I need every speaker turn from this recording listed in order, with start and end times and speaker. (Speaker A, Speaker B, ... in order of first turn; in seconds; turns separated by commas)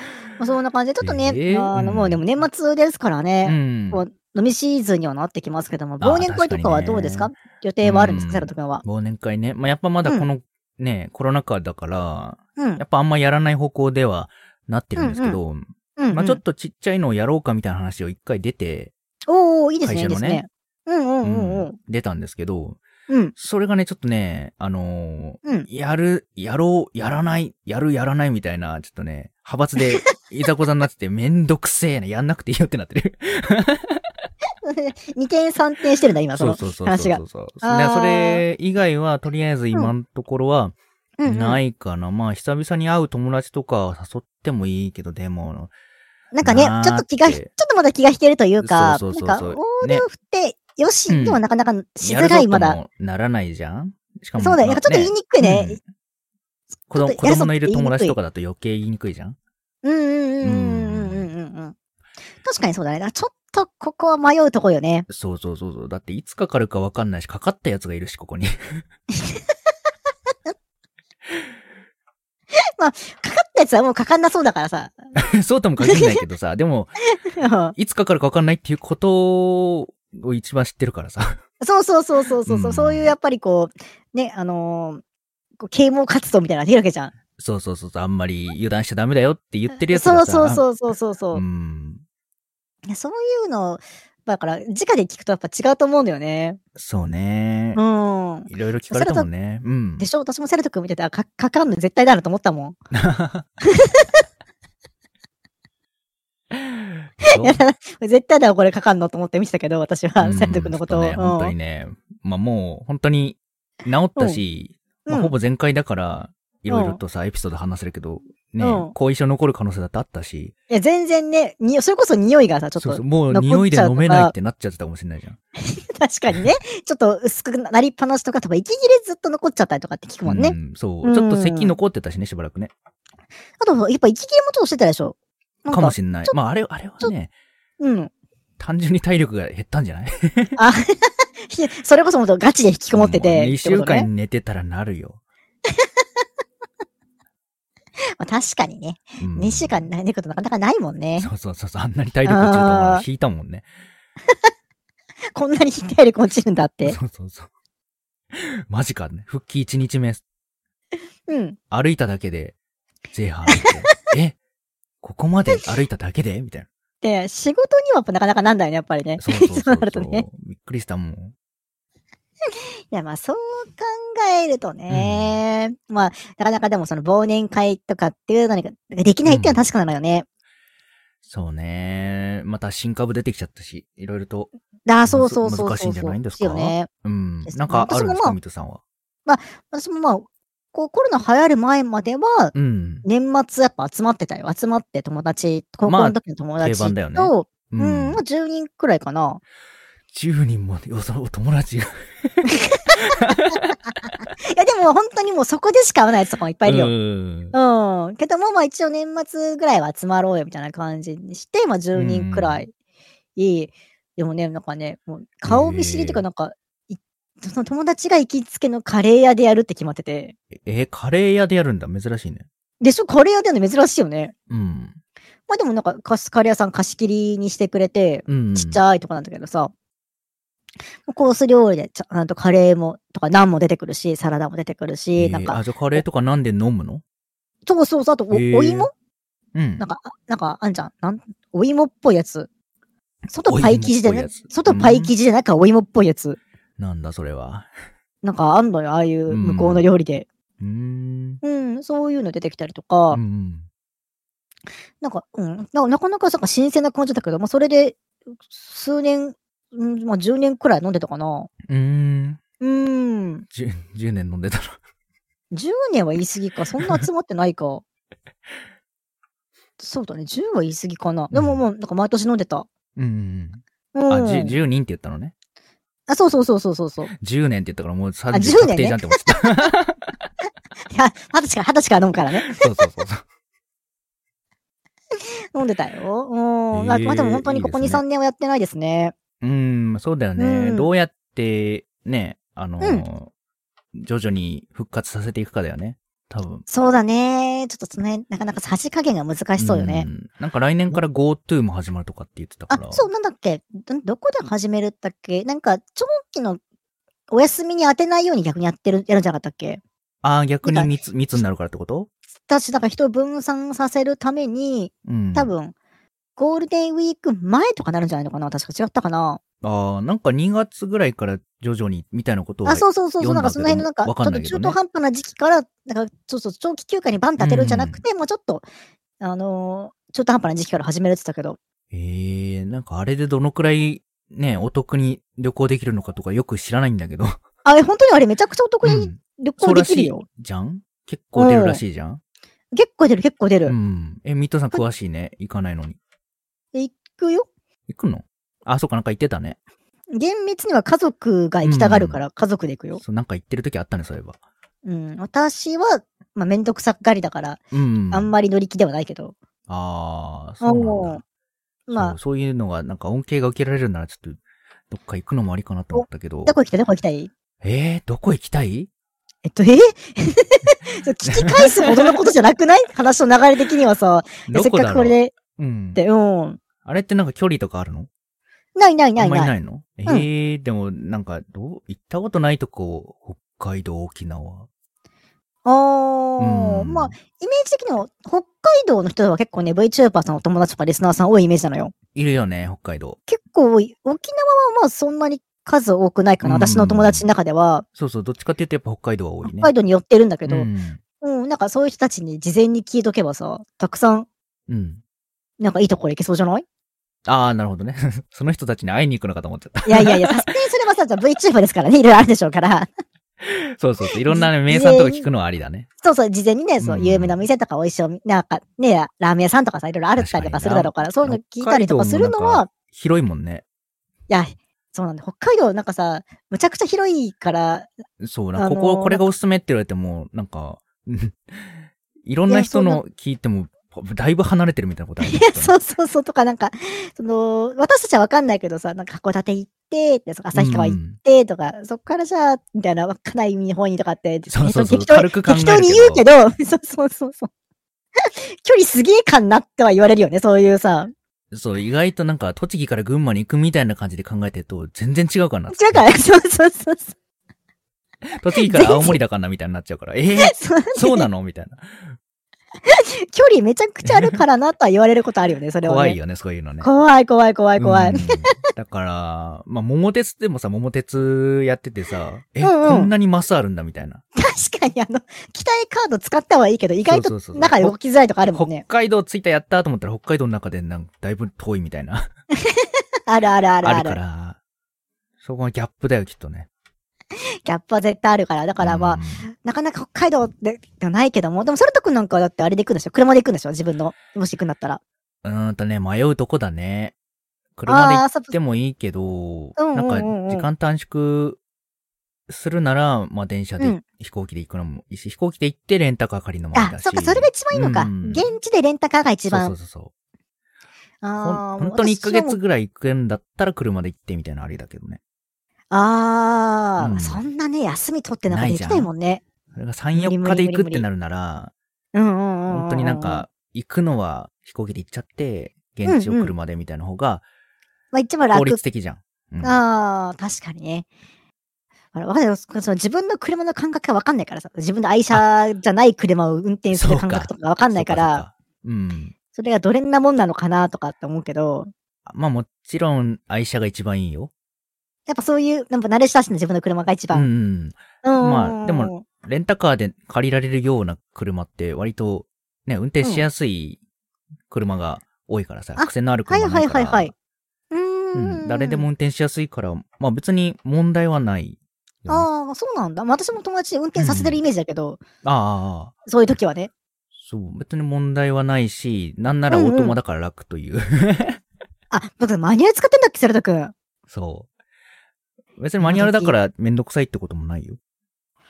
Speaker A: 0.4-8.8, Speaker B: 1.0-2.2, Speaker B: 3.4-4.0, Speaker B: 6.0-7.3, Speaker B: 7.8-18.9, Speaker A: 12.6-12.8, Speaker A: 15.0-15.4, Speaker A: 16.0-16.4, Speaker A: 19.3-21.8, Speaker B: 19.9-20.4, Speaker B: 21.2-22.8, Speaker B: 23.4-34.1, Speaker A: 34.6-38.4, Speaker B: 36.4-40.8, Speaker A: 41.2-41.6, Speaker B: 41.3-45.7, Speaker A: 46.3-52.8, Speaker B: 46.4-47.5, Speaker B: 48.6-50.1, Speaker B: 51.1-51.4, Speaker B: 52.0-55.8, Speaker A: 54.4-55.8, Speaker B: 56.9-59.4, Speaker A: 56.9-58.2, Speaker A: 59.8-61.8, Speaker B: 60.4-61.3, Speaker A: 62.4-65.1, Speaker B: 65.1-68.8, Speaker A: 72.8-75.0, Speaker B: 75.2-77.0, Speaker A: 75.8-76.2, Speaker A: 77.4-77.8, Speaker B: 77.8-81.4, Speaker A: 81.6-85.0, Speaker B: 82.5-83.1, Speaker A: 85.6-87.1, Speaker B: 87.4-90.7, Speaker A: 89.9-91.4, Speaker B: 91.3-92.0, Speaker A: 92.9-96.6, Speaker B: 96.8-97.8, Speaker A: 97.8-99.3, Speaker B: 98.5-100.1, Speaker A: 100.0-102.8, Speaker B: 102.9-103.5, Speaker A: 103.7-104.1, Speaker B: 106.5-107.6, Speaker A: 107.3-111.5, Speaker B: 110.2-120.5, Speaker A: 115.1-115.3, Speaker A: 116.7-117.0, Speaker A: 118.6-118.9, Speaker A: 120.7-124.3, Speaker B: 122.8-125.4, Speaker A: 125.7-131.8, Speaker B: 130.3-132.7, Speaker A: 133.6-136.3, Speaker B: 135.7-137.3, Speaker A: 137.8-138.1, Speaker B: 138.6-140.6, Speaker A: 140.6-144.1, Speaker B: 142.9-145.2, Speaker A: 148.2-151.3, Speaker B: 149.2-149.8, Speaker B: 151.2-153.7, Speaker A: 152.3-153.0, Speaker A: 155.3-157.0, Speaker B: 156.8-157.5, Speaker B: 158.3-160.2, Speaker A: 161.3-161.6, Speaker B: 161.7-162.6, Speaker B: 163.1-164.4, Speaker B: 165.0-166.7, Speaker A: 167.0-170.3, Speaker B: 169.2-171.3, Speaker A: 172.9-180.3, Speaker B: 174.9-175.4, Speaker B: 179.3-179.6, Speaker B: 181.2-184.5, Speaker A: 184.9-186.9, Speaker B: 185.1-188.8, Speaker A: 187.5-188.4, Speaker A: 189.3-192.5, Speaker B: 192.5-193.1, Speaker A: 193.1-199.4, Speaker B: 195.9-198.2, Speaker B: 200.1-202.4, Speaker A: 202.4-203.2, Speaker B: 203.0-203.7, Speaker A: 204.4-206.9, Speaker B: 206.7-207.5, Speaker A: 207.5-212.7, Speaker B: 211.9-212.6, Speaker A: 213.4-220.3, Speaker B: 215.5-216.2, Speaker B: 220.6-222.5, Speaker A: 222.8-224.3, Speaker B: 224.5-224.9, Speaker A: 225.5-229.7, Speaker B: 228.3-228.8, Speaker A: 231.1-236.0, Speaker B: 235.2-237.0, Speaker A: 237.7-238.9, Speaker B: 238.3-238.9, Speaker B: 239.5-239.8, Speaker A: 239.8-242.5, Speaker A: 243.3-246.4, Speaker B: 243.5-245.1, Speaker B: 246.8-247.7, Speaker A: 248.2-250.3, Speaker B: 249.3-249.8, Speaker B: 250.6-251.4, Speaker A: 251.4-253.2, Speaker B: 253.1-253.7, Speaker A: 255.0-261.5, Speaker B: 261.7-262.4, Speaker A: 262.6-263.5, Speaker B: 263.5-264.8, Speaker A: 265.5-267.8, Speaker A: 269.8-272.7, Speaker B: 271.3-271.6, Speaker B: 273.0-275.3, Speaker A: 273.9-274.6, Speaker A: 276.1-277.1, Speaker B: 277.2-280.1, Speaker A: 278.3-279.7, Speaker A: 280.9-282.6, Speaker B: 282.4-283.2, Speaker A: 285.5-289.1, Speaker B: 286.7-288.0, Speaker B: 289.4-293.3, Speaker A: 290.4-290.9, Speaker B: 293.9-296.6, Speaker A: 296.7-300.1, Speaker B: 299.6-303.1, Speaker A: 302.7-306.6, Speaker A: 307.3-309.8, Speaker B: 310.2-312.1, Speaker A: 310.6-310.9, Speaker A: 312.4-315.7, Speaker B: 315.1-315.5, Speaker A: 316.4-319.4, Speaker B: 319.6-324.8, Speaker A: 322.6-328.6, Speaker B: 327.4-328.0, Speaker A: 329.2-331.6, Speaker B: 331.9-337.4, Speaker A: 337.6-340.2, Speaker B: 338.8-342.2, Speaker A: 341.4-341.8, Speaker A: 342.7-343.8, Speaker B: 343.7-346.0, Speaker A: 346.7-347.5, Speaker B: 347.9-349.6, Speaker A: 350.1-353.0, Speaker B: 351.6-352.2, Speaker B: 353.0-354.4, Speaker A: 354.9-357.6, Speaker B: 357.7-358.3, Speaker A: 358.1-359.4, Speaker B: 359.7-361.2, Speaker A: 360.6-361.2, Speaker A: 361.9-362.2, Speaker B: 361.9-364.4, Speaker B: 364.9-366.6, Speaker A: 365.9-367.3, Speaker B: 367.6-368.9, Speaker A: 369.4-375.3, Speaker B: 371.2-372.2, Speaker B: 374.5-376.0, Speaker A: 376.0-376.6, Speaker B: 376.8-378.1, Speaker A: 378.8-379.5, Speaker B: 379.2-384.7, Speaker A: 385.6-391.9, Speaker B: 386.4-387.1, Speaker B: 392.1-393.2, Speaker A: 393.3-397.9, Speaker B: 396.4-397.3, Speaker B: 398.0-399.7, Speaker A: 399.4-400.7, Speaker B: 400.5-401.0, Speaker A: 401.2-404.3, Speaker B: 404.7-405.0, Speaker A: 405.6-406.6, Speaker B: 407.3-410.5, Speaker A: 409.9-412.9, Speaker B: 413.4-415.9, Speaker A: 414.3-415.3, Speaker A: 416.0-422.7, Speaker B: 416.8-417.4, Speaker B: 420.2-423.6, Speaker A: 424.3-427.9, Speaker B: 428.2-435.8, Speaker A: 428.6-429.3, Speaker A: 432.5-433.0, Speaker A: 435.2-447.5, Speaker B: 440.5-441.2, Speaker B: 444.5-446.2, Speaker A: 448.2-451.1, Speaker B: 451.5-456.1, Speaker A: 455.7-457.1, Speaker B: 458.4-462.1, Speaker A: 458.6-459.2, Speaker A: 460.4-461.3, Speaker A: 462.9-466.2, Speaker B: 464.1-464.4, Speaker B: 465.8-466.9, Speaker A: 466.8-468.5, Speaker B: 467.8-474.2, Speaker A: 472.6-473.1, Speaker A: 474.4-478.8, Speaker B: 477.1-477.9, Speaker B: 478.5-482.3, Speaker A: 482.7-484.2, Speaker B: 483.8-484.6, Speaker B: 485.4-486.7, Speaker A: 487.6-495.0, Speaker B: 488.8-489.5, Speaker B: 495.4-497.1, Speaker B: 497.8-501.6, Speaker A: 497.9-498.6, Speaker A: 499.8-500.7, Speaker B: 502.5-508.4, Speaker A: 506.7-509.7, Speaker B: 509.5-510.1, Speaker A: 511.2-512.6, Speaker B: 511.4-515.2, Speaker A: 515.9-519.4, Speaker B: 517.0-517.4, Speaker B: 518.5-519.1, Speaker B: 519.7-521.7, Speaker A: 520.2-521.1, Speaker A: 522.1-523.5, Speaker B: 522.7-527.4, Speaker A: 526.0-526.5, Speaker A: 528.1-528.8, Speaker B: 528.5-529.8, Speaker A: 529.6-531.1, Speaker A: 532.1-538.4, Speaker B: 536.9-539.3, Speaker A: 539.5-541.9, Speaker B: 542.3-544.5, Speaker A: 545.3-547.5, Speaker B: 547.3-554.0, Speaker A: 548.2-549.2, Speaker B: 554.7-557.3, Speaker A: 556.0-557.3, Speaker A: 557.9-559.1, Speaker B: 558.4-562.5, Speaker A: 562.3-565.2, Speaker B: 564.2-564.6, Speaker B: 565.4-566.1, Speaker A: 566.3-566.9, Speaker B: 567.4-571.6, Speaker A: 569.7-570.2, Speaker A: 572.1-573.9, Speaker B: 574.3-574.7, Speaker B: 575.8-578.0, Speaker A: 576.0-576.5